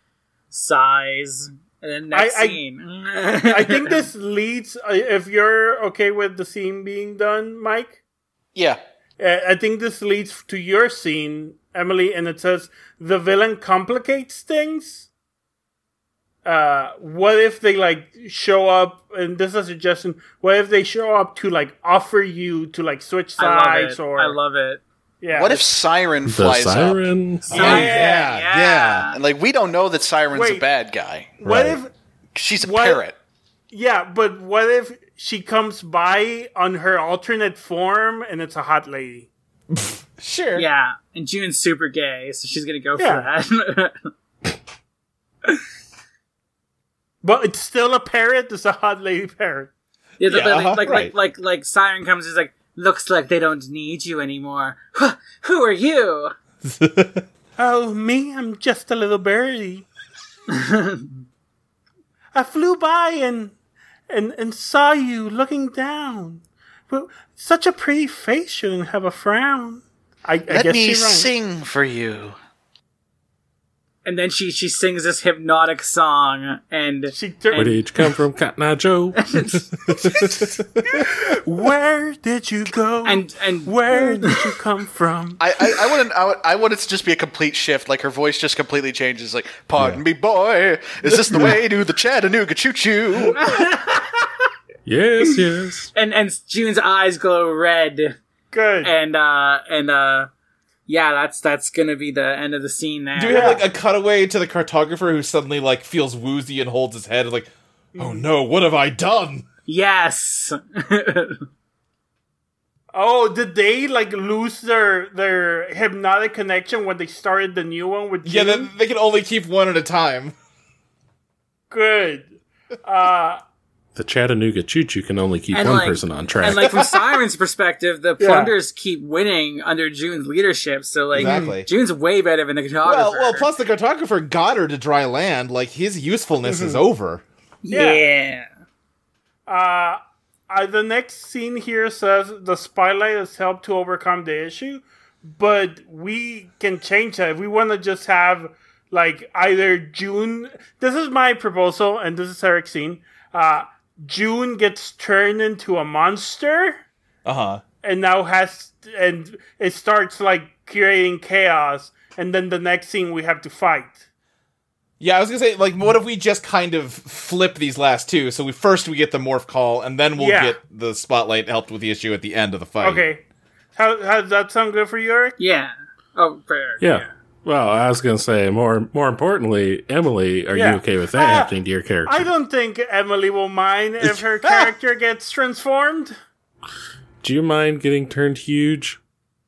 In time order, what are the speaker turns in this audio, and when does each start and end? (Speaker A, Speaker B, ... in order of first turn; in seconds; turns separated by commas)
Speaker A: 0.5-4.0, Speaker B: 2.1-2.6, Speaker B: 3.5-8.0, Speaker C: 8.5-8.8, Speaker B: 9.2-15.1, Speaker B: 16.4-24.4, Speaker A: 23.4-24.8, Speaker B: 25.2-25.6, Speaker C: 25.3-27.0, Speaker D: 26.2-27.8, Speaker E: 27.5-29.1, Speaker A: 27.5-29.1, Speaker B: 27.5-28.3, Speaker C: 29.1-31.4, Speaker B: 30.3-30.6, Speaker B: 31.4-31.9, Speaker D: 31.4-31.8, Speaker C: 32.3-33.1, Speaker B: 32.6-33.0, Speaker B: 33.7-39.3, Speaker E: 39.7-40.6, Speaker A: 40.5-44.1, Speaker B: 43.0-43.2, Speaker B: 47.2-49.7, Speaker A: 50.2-56.3, Speaker E: 50.2-51.1, Speaker E: 56.6-57.2, Speaker B: 57.6-59.9, Speaker A: 60.5-61.0, Speaker B: 62.3-63.5, Speaker B: 64.1-71.3, Speaker C: 70.5-72.3, Speaker A: 74.0-77.8, Speaker B: 77.1-77.8, Speaker D: 77.5-79.6, Speaker A: 79.2-79.6, Speaker E: 79.9-81.0, Speaker B: 80.8-85.4, Speaker A: 83.0-84.4, Speaker C: 85.4-93.4, Speaker E: 89.8-90.0, Speaker A: 93.3-94.2, Speaker D: 94.8-95.9, Speaker A: 95.9-98.2, Speaker B: 98.5-98.9, Speaker A: 98.8-100.3, Speaker A: 100.9-103.6, Speaker E: 103.2-109.5, Speaker B: 103.3-103.6, Speaker B: 108.0-108.3, Speaker A: 109.7-111.4, Speaker B: 112.9-118.7, Speaker E: 118.2-120.3, Speaker B: 121.7-122.3, Speaker B: 122.8-123.4, Speaker D: 123.9-126.7, Speaker A: 125.5-133.5, Speaker E: 126.5-127.0, Speaker B: 128.2-128.5, Speaker E: 131.1-131.7, Speaker B: 131.2-131.5, Speaker E: 132.8-137.2, Speaker B: 136.4-136.8, Speaker A: 137.6-138.5, Speaker B: 137.7-138.0, Speaker B: 139.5-140.0, Speaker B: 140.5-156.8, Speaker E: 157.2-157.6, Speaker B: 157.8-164.0, Speaker E: 165.0-173.1, Speaker B: 170.2-170.6, Speaker B: 172.8-173.2, Speaker B: 173.7-175.4, Speaker A: 175.4-177.1, Speaker D: 176.8-182.2, Speaker B: 180.5-181.5, Speaker B: 182.1-186.1, Speaker D: 187.2-189.0